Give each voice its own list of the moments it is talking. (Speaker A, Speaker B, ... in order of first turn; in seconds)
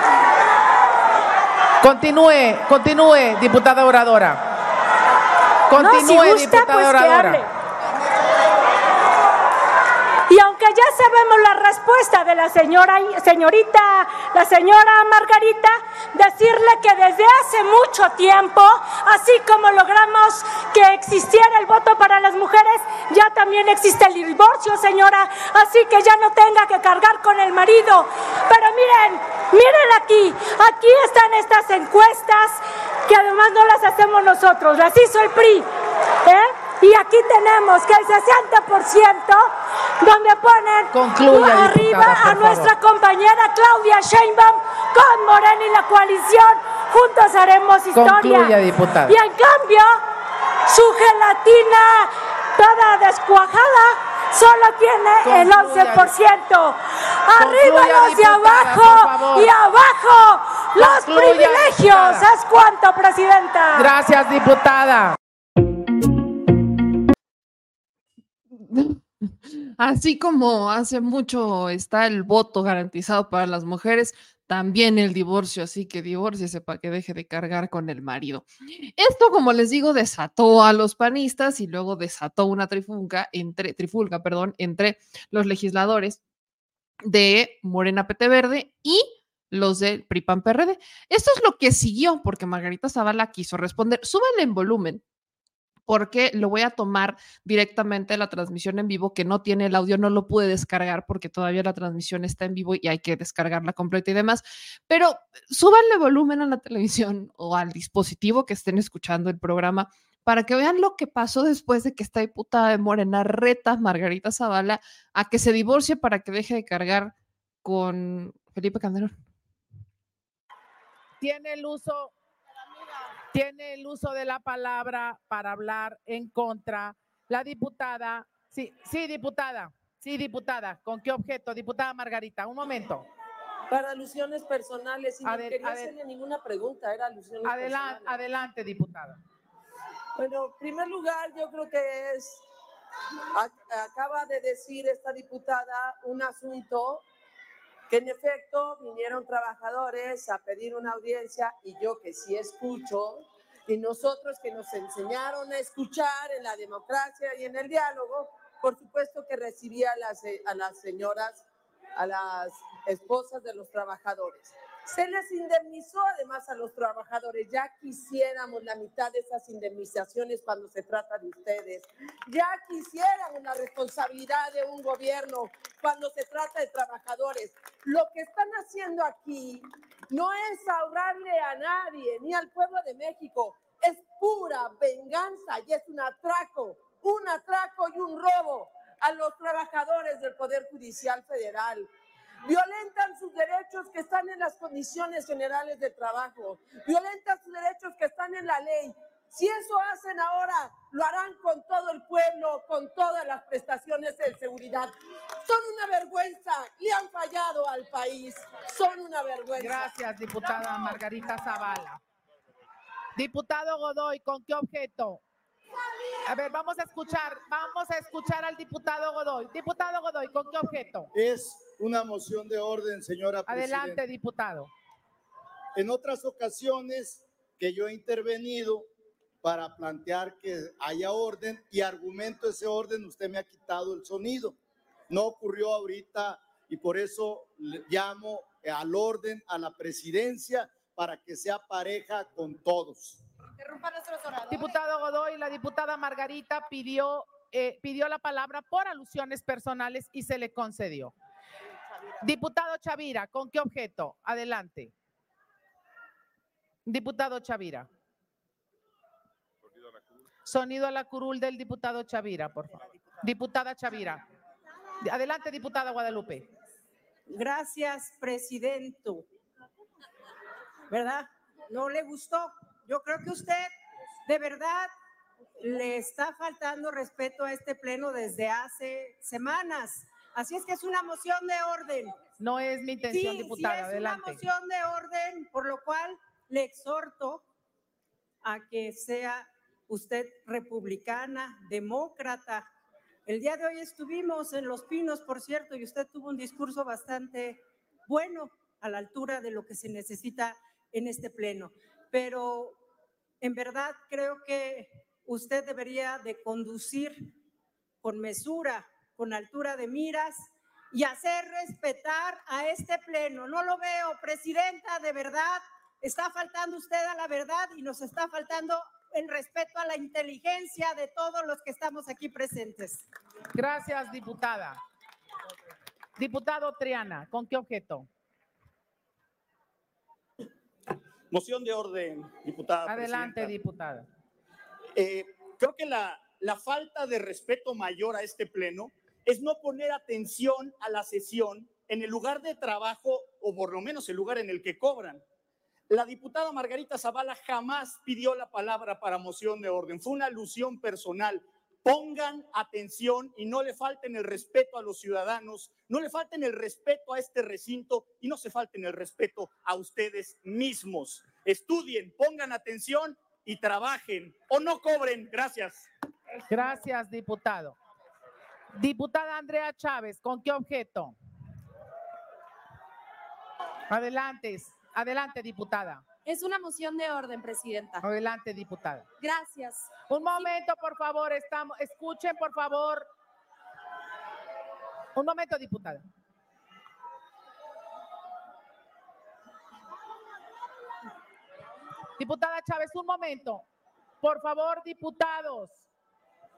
Speaker A: 1.8-4.4, 5.7-7.4, 40.9-42.7, 47.9-49.2, 55.2-56.1, 57.4-59.5, 60.8-62.3, 63.8-65.2, 121.2-122.1, 123.3-133.1, 135.2-135.9, 137.4-139.2, 209.6-212.0, 213.2-215.2, 216.3-221.1, 223.5-224.7, 244.5-251.1, 252.2-254.9, 256.9-257.9, 260.4-264.2, 265.0-266.5, 282.4-284.4, 323.6-324.8, 326.2-328.1, 332.9-334.1, 366.5-367.8, 368.8-371.1, 373.9-376.0, 378.0-379.1, 380.1-383.1, 385.2-386.0, 392.2-393.6, 394.2-395.8
Speaker B: 5.8-7.5, 10.3-35.7, 36.2-48.5, 49.1-50.0, 50.7-63.9
Speaker C: 68.6-86.2, 87.0-95.0, 95.9-117.1, 117.6-119.2
Speaker D: 133.7-138.2, 140.2-142.4, 143.3-147.0, 147.9-161.4, 162.0-191.9, 192.4-204.9, 205.4-209.9
Speaker E: 221.1-224.0, 225.8-228.9, 229.4-234.6, 235.1-243.2
Speaker F: 243.6-244.7, 267.3-269.3, 270.9-273.7, 274.3-274.9, 275.6-282.1, 283.1-287.4, 288.4-292.7, 293.3-302.8, 303.4-307.3, 308.0-323.1
Speaker G: 331.3-333.6, 334.9-345.2, 345.9-365.9
Speaker H: 376.2-378.1, 379.2-380.5